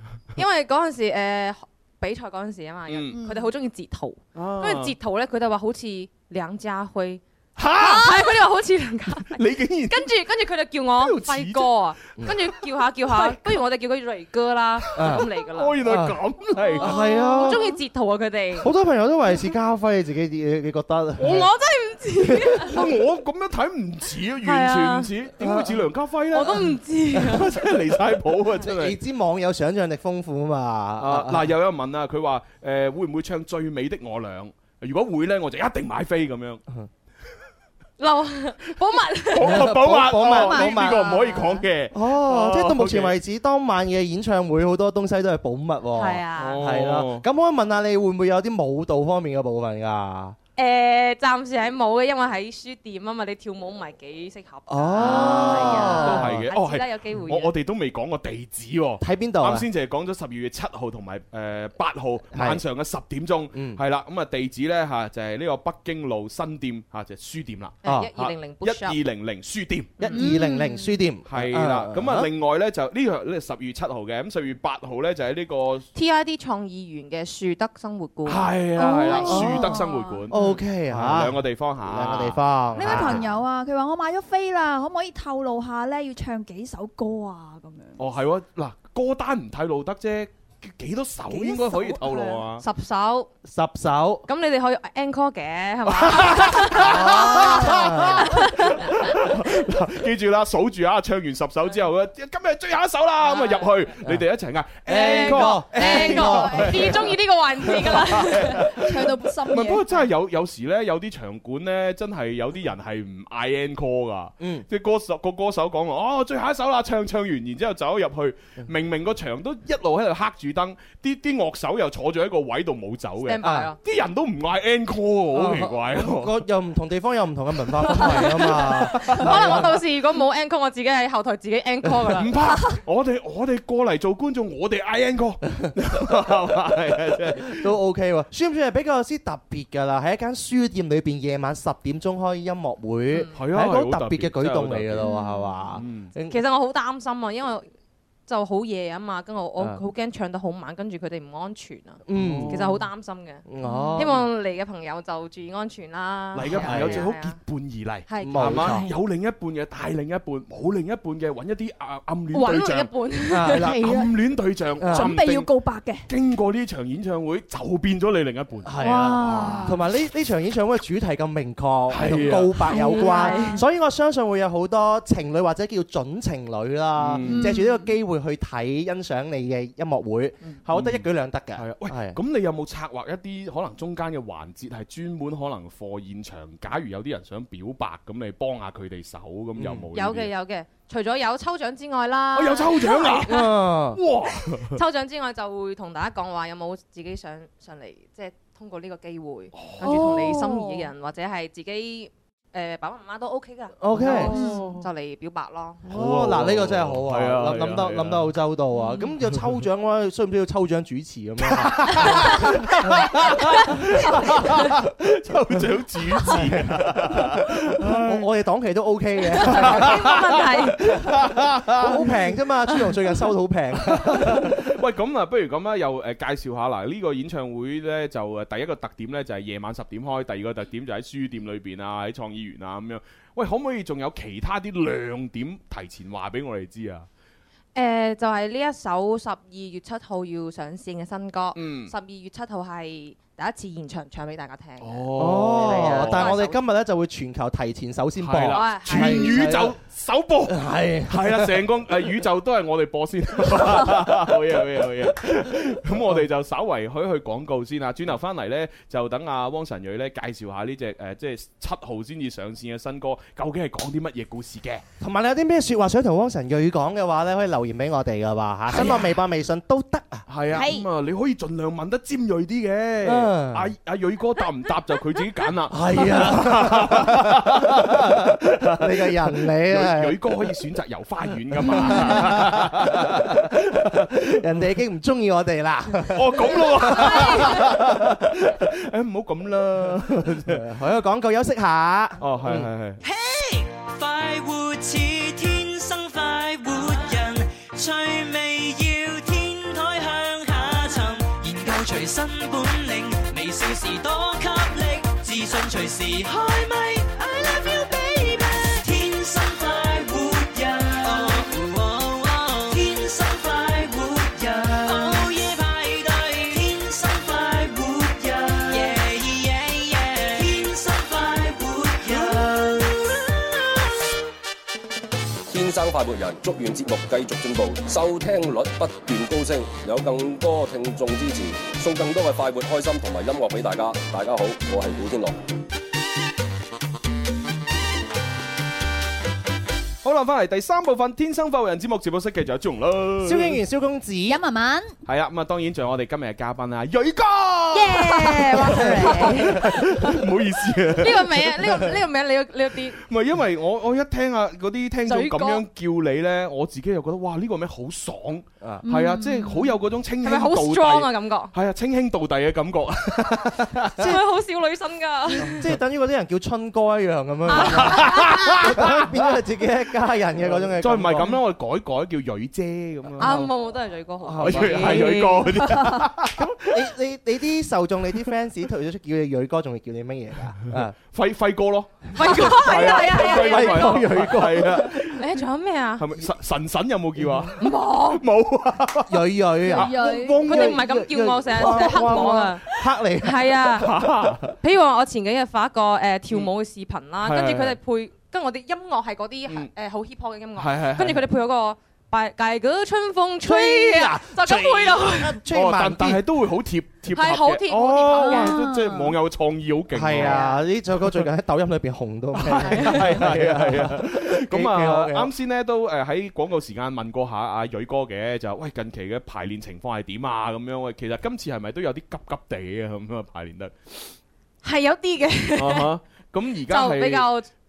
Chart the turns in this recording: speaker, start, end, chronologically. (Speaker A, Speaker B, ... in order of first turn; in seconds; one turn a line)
Speaker A: 0.4-7.2
Speaker B: 2.9-3.2
Speaker C: 3.1-3.5
Speaker B: 4.3-5.0
Speaker B: 7.6-8.4
Speaker A: 7.8-15.8
Speaker B: 9.3-10.1
Speaker B: 10.9-11.7
Speaker B: 14.9-17.1
Speaker D: 14.9-15.3
Speaker D: 15.8-16.2
Speaker D: 16.8-17.7
Speaker A: 16.8-18.7
Speaker D: 18.6-21.5
Speaker A: 21.2-22.8
Speaker D: 22.3-22.7
Speaker B: 22.6-28.9
Speaker A: 24.4-25.1
Speaker D: 25.4-25.8
Speaker A: 26.3-27.6
Speaker D: 28.6-31.5
Speaker B: 31.0-36.6
Speaker A: 38.0-39.7
Speaker B: 39.3-43.2
Speaker D: 39.5-41.1
Speaker A: 40.4-41.5
Speaker D: 41.9-50.4
Speaker A: 45.9-46.7
Speaker B: 46.4-47.2
Speaker A: 50.6-57.5
Speaker D: 54.7-56.5
Speaker B: 55.0-70.0
Speaker D: 59.0-59.7
Speaker D: 62.3-62.6
Speaker D: 63.5-63.8
Speaker D: 67.8-68.1
Speaker A: 67.8-69.0
Speaker D: 70.0-72.3
Speaker A: 70.0-70.3
Speaker C: 70.1-71.0
Speaker B: 71.3-75.9
Speaker A: 75.9-79.4
Speaker B: 78.3-83.3
Speaker C: 78.8-80.6
Speaker D: 79.2-79.8
Speaker D: 80.3-83.2
Speaker C: 82.7-88.0
Speaker B: 88.0-92.6
Speaker C: 91.3-92.5
Speaker A: 92.6-93.3
Speaker D: 93.5-94.2
Speaker A: 94.3-99.1
Speaker B: 95.9-107.1
Speaker D: 96.8-98.3
Speaker A: 103.2-103.7
Speaker D: 104.9-106.8
Speaker A: 104.9-108.7
Speaker C: 105.7-107.0
Speaker B: 107.7-126.4
Speaker C: 108.7-110.1
Speaker D: 114.4-114.7
Speaker A: 123.2-123.8
Speaker D: 123.4-123.7
Speaker D: 125.3-129.8
Speaker A: 127.9-132.6
Speaker B: 127.9-128.3
Speaker B: 129.0-129.6
Speaker B: 132.1-137.7
Speaker D: 135.6-136.2
Speaker D: 137.2-146.4
Speaker B: 143.3-145.1
Speaker C: 145.0-145.7
Speaker B: 145.8-146.1
Speaker A: 146.3-147.7
Speaker A: 148.3-153.4
Speaker D: 152.1-152.7
Speaker B: 152.2-152.8
Speaker D: 153.4-154.2
Speaker C: 153.6-154.1
Speaker A: 153.9-157.4
Speaker B: 156.3-162.9
Speaker D: 156.5-157.1
Speaker A: 158.1-158.7
Speaker D: 158.2-158.9
Speaker C: 158.5-158.9
Speaker A: 162.3-163.6
Speaker D: 163.3-163.8
Speaker C: 163.4-164.2
Speaker B: 163.5-165.5
Speaker D: 164.8-165.2
Speaker C: 164.9-166.1
Speaker B: 166.1-169.7
Speaker D: 168.6-182.2
Speaker C: 168.8-169.8
Speaker B: 171.9-173.0
Speaker C: 172.7-173.6
Speaker A: 172.9-173.6
Speaker B: 176.9-177.6
Speaker C: 177.2-177.9
Speaker B: 180.7-190.3
Speaker D: 189.6-189.9
Speaker A: 189.9-193.5
Speaker B: 192.3-194.8
Speaker D: 193.2-194.0
Speaker A: 194.7-205.8
Speaker B: 199.5-200.4
Speaker D: 203.8-204.4
Speaker B: 203.9-204.8
Speaker C: 204.1-204.8
Speaker B: 205.8-208.3
Speaker D: 205.9-213.3
Speaker C: 208.7-209.1
Speaker B: 211.4-218.3
Speaker D: 216.3-220.2
Speaker A: 219.3-221.0
Speaker B: 219.4-222.2
Speaker D: 221.7-224.6
Speaker B: 223.9-237.1
Speaker A: 237.7-246.6
Speaker B: 241.6-241.9
Speaker B: 244.8-246.3
Speaker D: 245.2-249.7
Speaker B: 248.2-264.8
Speaker A: 248.5-249.5
Speaker D: 250.5-251.6
Speaker D: 253.6-254.2
Speaker D: 265.0-270.3
Speaker B: 268.7-269.0
Speaker C: 268.7-269.1
Speaker B: 270.3-284.1
Speaker C: 270.5-270.9
Speaker D: 273.0-273.7
Speaker D: 275.7-280.4
Speaker D: 281.6-288.2
Speaker B: 286.1-290.6
Speaker D: 290.3-292.7
Speaker B: 292.2-293.0
Speaker E: 293.0-323.5
Speaker F: 325.5-335.4
Speaker B: 340.0-343.6
Speaker D: 343.2-344.4
Speaker C: 344.3-344.9
Speaker B: 345.1-351.7
Speaker C: 347.8-349.7
Speaker A: 347.8-349.7
Speaker D: 348.7-349.5
Speaker A: 351.0-353.0
Speaker B: 353.0-364.0
Speaker A: 355.1-355.6
Speaker C: 358.8-359.8
Speaker A: 360.2-361.5
Speaker A: 364.0-365.7
Speaker D: 365.4-371.4
Speaker A: 367.5-368.6
Speaker B: 367.5-369.2
Speaker B: 370.4-373.5
Speaker D: 373.2-373.5
Speaker A: 373.2-375.4
Speaker D: 374.2-380.9
Speaker B: 374.4-376.7
Speaker B: 381.1-385.2
Speaker A: 382.1-384.2
Speaker D: 382.2-385.0
Speaker A: 385.2-386.1
Speaker B: 386.0-390.8
Speaker D: 387.2-387.5
Speaker A: 387.6-388.2
Speaker D: 389.1-393.6
Speaker C: 389.7-390.6
Speaker A: 390.4-392.6
Speaker B: 391.6-392.4
Speaker A: 393.2-393.9
Speaker B: 393.7-394.6
Speaker A: 394.6-405.4
Speaker B: 397.2-397.8
Speaker B: 400.6-401.2
Speaker D: 403.4-406.2
Speaker B: 405.5-410.4
Speaker A: 407.1-408.6
Speaker C: 408.2-409.2
Speaker D: 409.9-415.3
Speaker A: 410.2-410.6
Speaker B: 412.4-424.1
Speaker A: 412.7-413.0
Speaker A: 424.6-425.9
Speaker B: 425.6-427.3
Speaker A: 426.7-427.5